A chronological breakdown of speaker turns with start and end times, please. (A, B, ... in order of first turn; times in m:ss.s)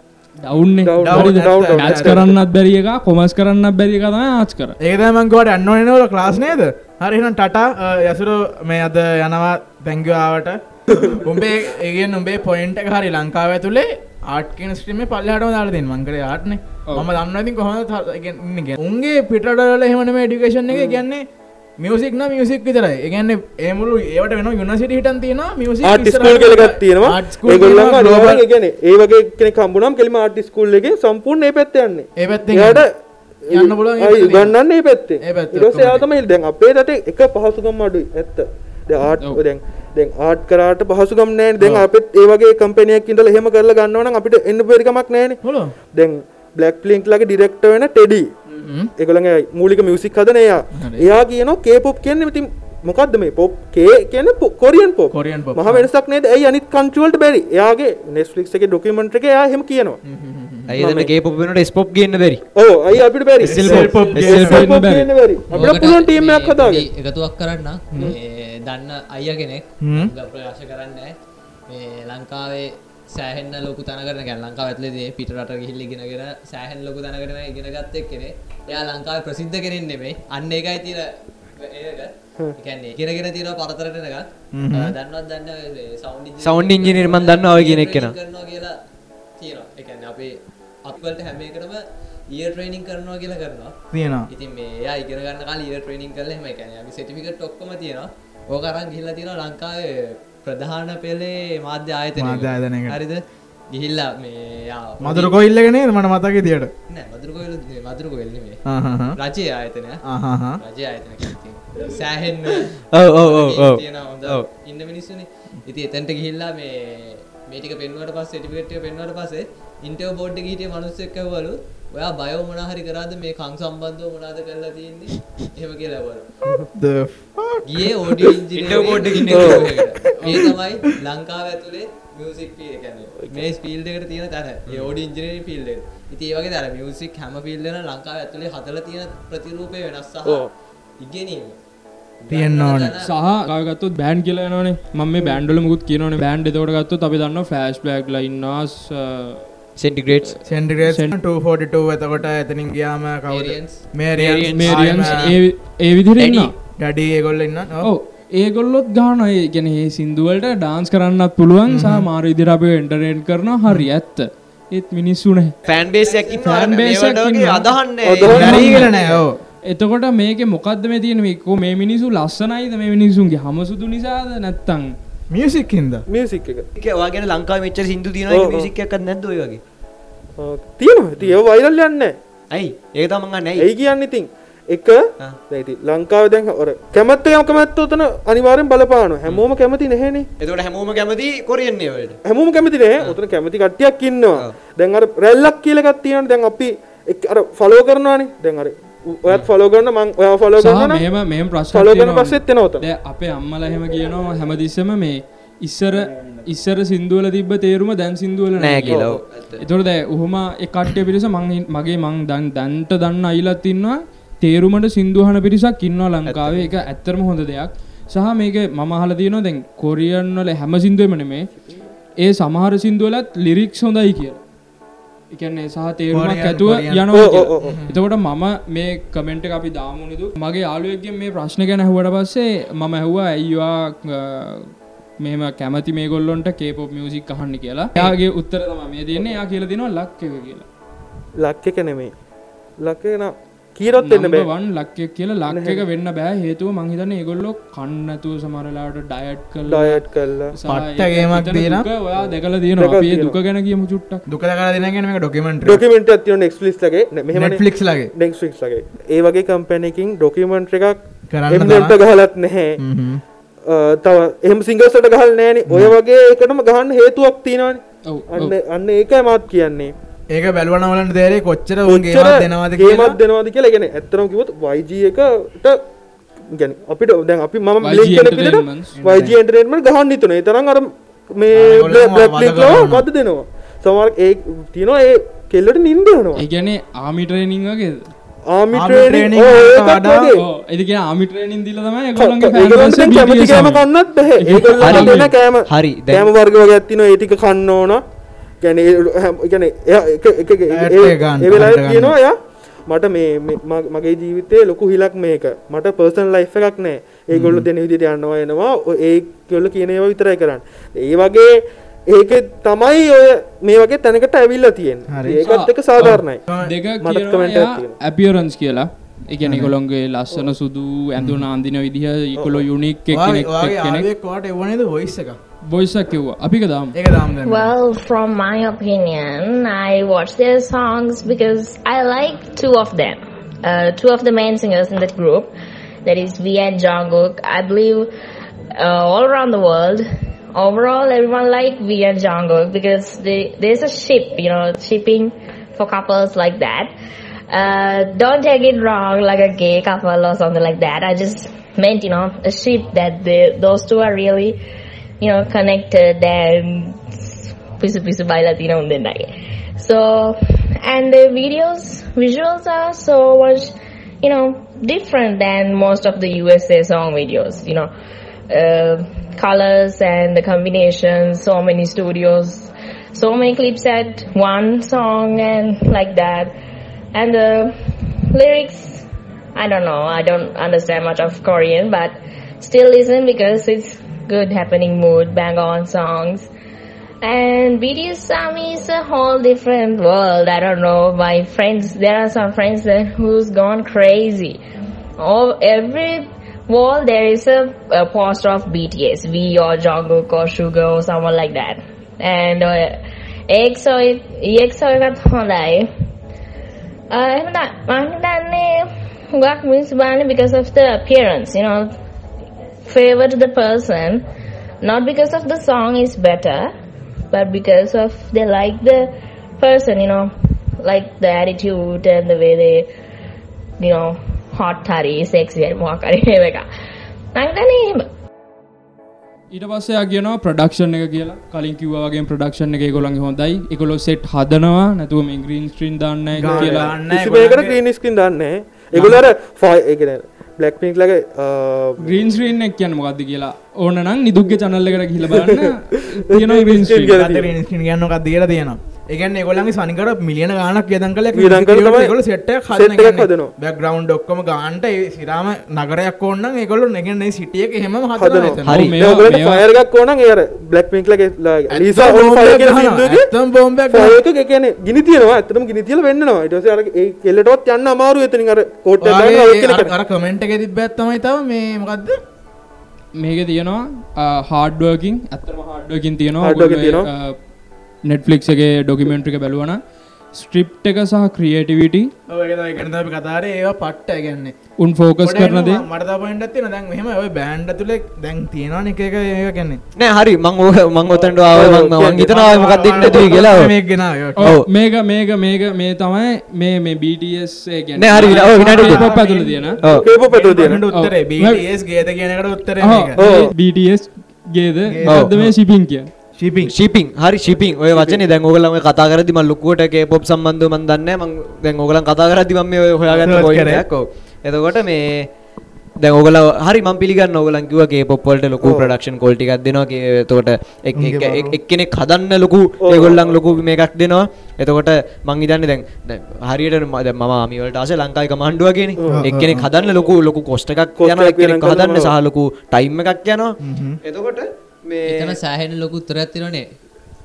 0:00.4-0:04.7 A
0:00.8-0:02.3 B
0:01.0-0:02.2 C
0:04.8-0:21.2 C
0:21.8-0:28.4 C
0:25.8-0:32.9 B
0:32.2-0:32.8 C
0:33.5-0:45.4 B
0:33.5-0:34.5 C
0:35.2-0:36.0 C
0:41.6-0:41.8 C
0:45.4-0:45.7 C
0:45.9-0:48.3 B
0:48.5-0:48.9 C
0:49.0-1:00.0 B
0:50.8-0:51.1 C
0:55.1-0:55.9 C
1:00.0-1:00.8 C
1:00.7-1:02.4 D
1:00.8-1:01.1 B
1:02.6-1:06.9 B
1:03.4-1:04.6 C
1:03.4-1:04.6 D
1:04.4-1:05.1 A
1:05.5-1:11.1 E
1:09.8-1:10.1 C
1:11.7-1:28.8 E
1:24.5-1:24.9 C
1:26.4-1:28.1 D
1:29.4-1:33.7 E
1:33.9-1:34.3 C
1:34.3-1:43.2 E
1:42.2-1:43.0 C
1:43.7-1:45.3 E
1:45.0-1:46.7 C
1:46.9-1:48.6 E
1:48.6-1:49.2 C
1:49.2-1:50.0 E
1:50.0-1:50.6 C
1:50.6-2:06.3 E
1:53.0-1:53.7 D
2:06.7-2:08.3 C
2:07.6-2:20.4 E
2:08.5-2:09.7 D
2:09.3-2:09.7 B
2:09.7-2:10.6 C
2:21.0-2:21.6 E
2:22.2-2:23.1 E
2:22.3-2:22.9 C
2:23.0-2:29.4 A
2:29.8-2:30.3 D
2:30.4-2:35.4 C
2:33.3-2:33.8 E
2:34.1-2:35.3 D
2:34.5-2:36.5 A
2:36.2-2:37.9 C
2:37.8-2:45.5 A
2:41.7-2:42.0 C
2:45.6-2:49.2 D
2:45.6-2:46.7 E
2:46.4-2:47.7 A
2:48.0-2:48.9 B
2:48.3-2:49.4 C
2:48.4-2:48.9 A
2:49.7-2:54.9 A
2:55.3-2:56.0 C
2:56.1-2:56.6 B
2:56.8-2:59.6 D
2:58.3-2:58.7 B
3:00.4-3:02.2 B
3:02.5-3:03.7 D
3:03.6-3:10.3 B
3:10.4-3:12.2 D
3:12.2-3:21.0 B
3:20.6-3:41.5 A
3:21.7-3:22.8 B
3:26.0-3:26.5 C
3:28.6-3:29.6 D
3:28.9-3:29.2 B
3:36.3-3:36.7 D
3:42.2-3:44.4 A
3:45.3-3:54.7 A
3:46.1-3:47.1 C
3:47.1-3:47.8 B
3:47.6-3:47.9 C
3:55.2-4:00.6 A
4:01.4-4:02.1 B
4:02.8-4:04.5 B
4:04.0-4:10.0 A
4:05.5-4:05.8 B
4:09.6-4:10.5 B
4:10.5-4:14.2 A
4:10.6-4:11.9 C
4:12.8-4:13.4 B
4:14.3-4:15.8 C
4:15.6-4:21.0 B
4:17.3-4:18.1 C
4:21.3-4:22.0 C
4:21.5-4:22.8 B
4:22.8-4:23.2 C
4:23.7-4:29.9 B
4:25.7-4:25.9 C
4:28.1-4:28.5 A
4:30.3-4:33.2 C
4:31.8-4:35.8 B
4:36.5-4:46.4 B
4:37.8-4:38.9 A
4:38.9-4:39.4 C
4:41.5-4:43.1 C
4:46.4-4:48.1 A
4:48.5-4:50.4 B
4:48.7-4:50.3 C
4:50.4-4:53.8 A
4:52.2-4:58.0 B
4:54.4-4:55.3 A
4:54.8-4:56.3 D
4:58.6-5:11.5 B
5:00.7-5:02.1 C
5:07.3-5:07.6 C
5:12.1-5:16.4 B
5:15.1-5:15.4 C
5:15.4-5:16.1 A
5:16.0-5:16.7 C
5:16.6-5:24.1 A
5:17.0-5:17.9 B
5:19.4-5:19.7 C
5:21.2-5:21.4 C
5:22.4-5:22.6 B
5:23.1-5:25.4 C
5:25.7-5:26.9 A
5:26.9-5:27.7 C
5:27.4-5:35.5 F
5:36.0-5:38.1 F
5:38.8-5:46.9 F
5:47.5-5:54.6 F
5:55.2-6:07.9 F
6:08.5-6:16.5 F
6:17.1-6:17.7 F
6:18.3-6:19.0 F
6:19.5-6:26.5 F
6:27.2-6:34.6 F
6:35.2-6:45.9 F
6:47.1-6:51.9 F
6:52.8-6:54.2 F
6:54.8-6:56.7 F
6:57.3-7:02.9 F
7:03.8-7:06.6 F
7:07.3-7:08.0 F
7:09.5-7:16.9 A
7:16.4-7:17.8 C
7:16.5-7:22.2 B
7:18.9-7:19.2 C
7:22.0-7:27.2 A
7:25.3-7:27.5 B
7:27.0-7:38.9 C
7:31.3-7:32.1 B
7:32.7-7:33.5 B
7:38.2-7:43.3 B
7:38.6-7:39.0 D
7:38.7-7:39.6 A
7:41.7-7:44.2 C
7:43.9-7:49.9 B
7:49.0-7:52.2 C
7:53.2-7:57.4 A
7:56.4-7:57.1 B
7:58.1-7:59.8 A
8:00.4-8:02.1 A
8:02.3-8:04.6 C
8:04.8-8:05.8 A
8:05.2-8:09.8 C
8:10.0-8:13.7 D
8:11.1-8:13.4 B
8:12.2-8:14.6 C
8:14.4-8:19.8 A
8:18.0-8:19.0 D
8:18.2-8:23.2 C
8:19.9-8:20.8 B
8:20.9-8:21.6 A
8:22.8-8:26.1 A
8:23.2-8:23.5 B
8:24.9-8:25.5 C
8:26.4-8:26.7 C
8:26.7-8:35.2 D
8:27.5-8:28.2 B
8:33.1-8:33.5 B
8:33.2-8:33.9 C
8:36.0-8:55.4 D
8:38.6-8:38.9 B
8:41.0-8:41.5 C
8:42.8-8:43.6 B
8:49.1-8:49.7 C
8:51.0-8:52.1 B
8:53.6-8:54.0 C
8:55.1-8:56.6 E